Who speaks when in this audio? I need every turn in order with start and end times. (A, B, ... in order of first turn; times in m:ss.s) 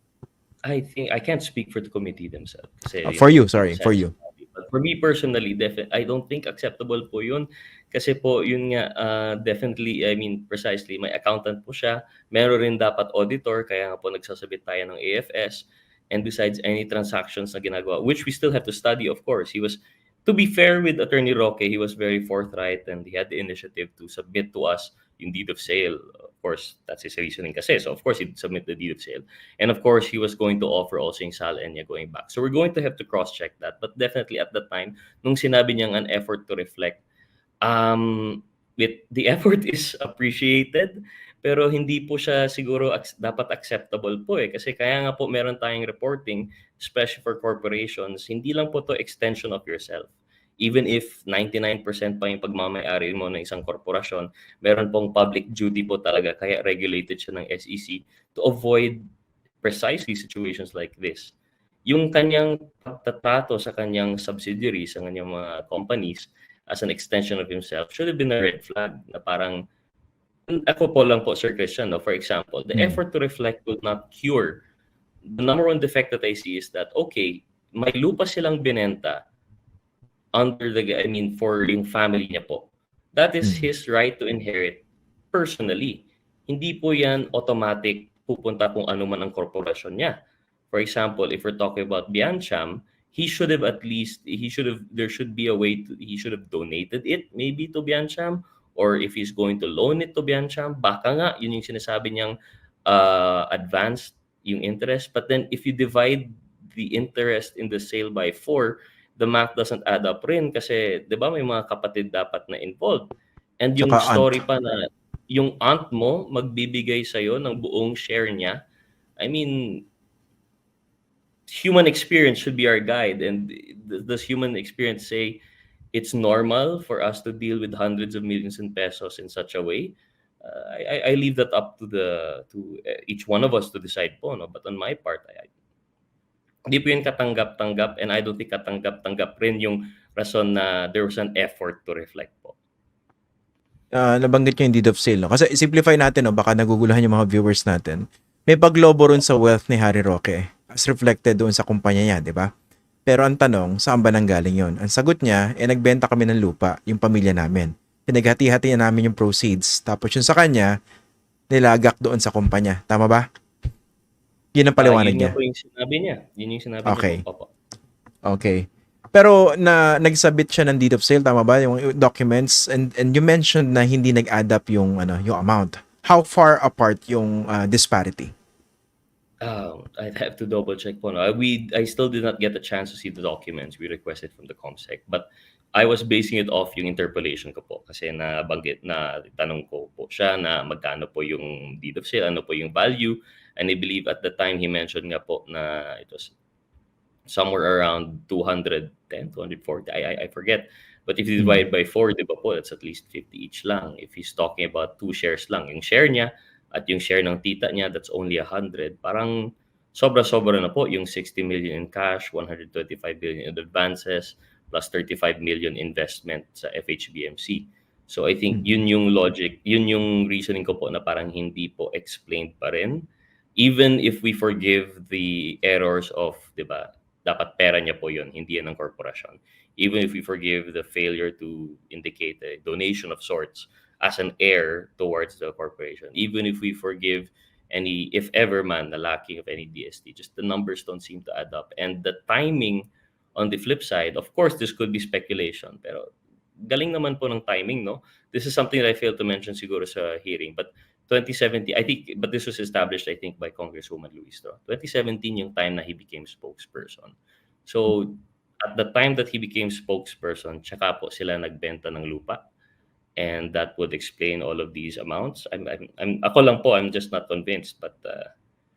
0:00.7-0:37.0 A
0:03.0-0:04.1 B
0:37.6-0:59.0 A
0:59.6-1:01.3 A
1:01.9-1:09.6 A
1:10.5-1:14.6 A
1:12.7-1:13.0 B
1:15.3-1:19.2 A
1:20.3-1:30.2 A
1:30.7-1:42.3 A
1:42.9-1:53.1 A
1:53.6-1:58.6 A
1:53.8-1:54.4 B
1:59.2-1:59.9 A
2:01.5-2:05.4 A
2:05.9-2:15.5 A
2:16.7-2:22.6 A
2:23.9-2:32.5 B
2:33.1-2:40.7 B
2:41.5-2:43.3 B
2:44.5-2:45.4 B
2:44.8-2:47.5 A
2:46.8-2:47.2 B
2:48.3-2:58.3 B
2:59.4-3:16.3 A
3:17.3-3:43.1 A
3:43.6-4:06.1 A
4:06.6-4:22.5 A
4:23.2-4:28.3 A